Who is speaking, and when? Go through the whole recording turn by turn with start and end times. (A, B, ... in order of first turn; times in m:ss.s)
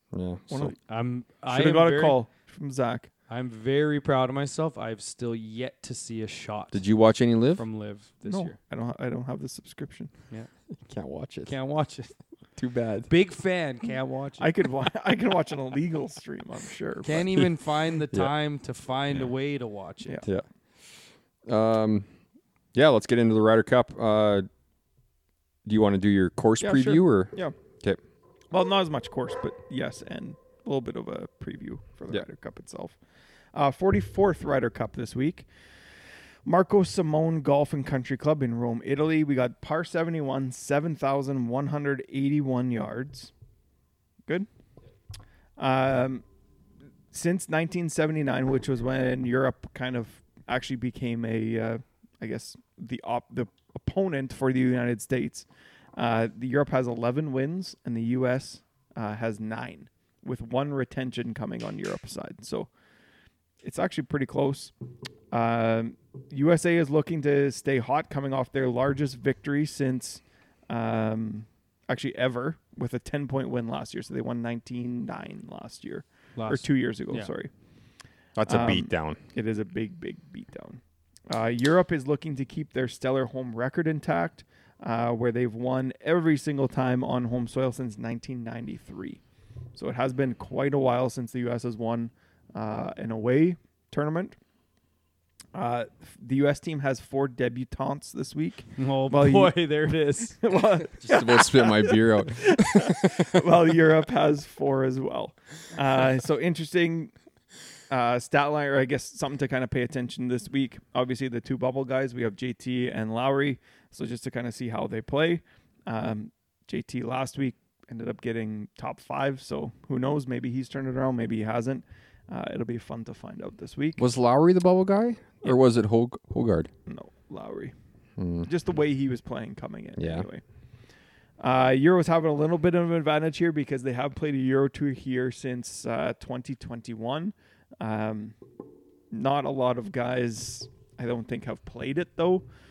0:00.1-0:00.7 A
0:00.5-0:00.8 B
0:00.9-0:02.2 C
0:01.5-0:03.1 B
0:03.3-0:06.8 C
0:06.7-0:07.6 A
0:07.6-0:08.6 C
0:08.2-0:10.1 B
0:10.8-0:11.5 A
0:11.4-0:12.1 C
0:12.6-0:13.1 A
0:13.1-0:14.5 C
0:14.4-0:17.3 B
0:17.0-0:20.2 C
0:21.4-0:22.1 A
0:22.7-0:24.5 A
0:25.6-0:28.0 A
0:26.6-0:27.5 B
0:28.5-0:33.0 B
0:33.5-0:35.5 B
0:36.4-0:43.3 B
0:45.6-0:46.2 B
0:47.1-1:02.7 B
1:03.6-1:04.7 B
1:05.3-1:17.5 B
1:16.4-1:17.3 C
1:18.4-1:19.2 A
1:18.4-1:29.2 B
1:29.8-1:34.4 B
1:35.5-1:39.6 B
1:38.8-1:40.4 C
1:40.3-1:47.1 B
1:41.0-1:43.4 A
1:47.9-2:04.0 B
2:04.0-2:06.7 A
2:06.8-2:07.7 B
2:08.2-2:08.5 A
2:08.4-2:10.4 B
2:10.0-2:10.3 A
2:11.4-2:18.4 B
2:19.1-2:22.4 B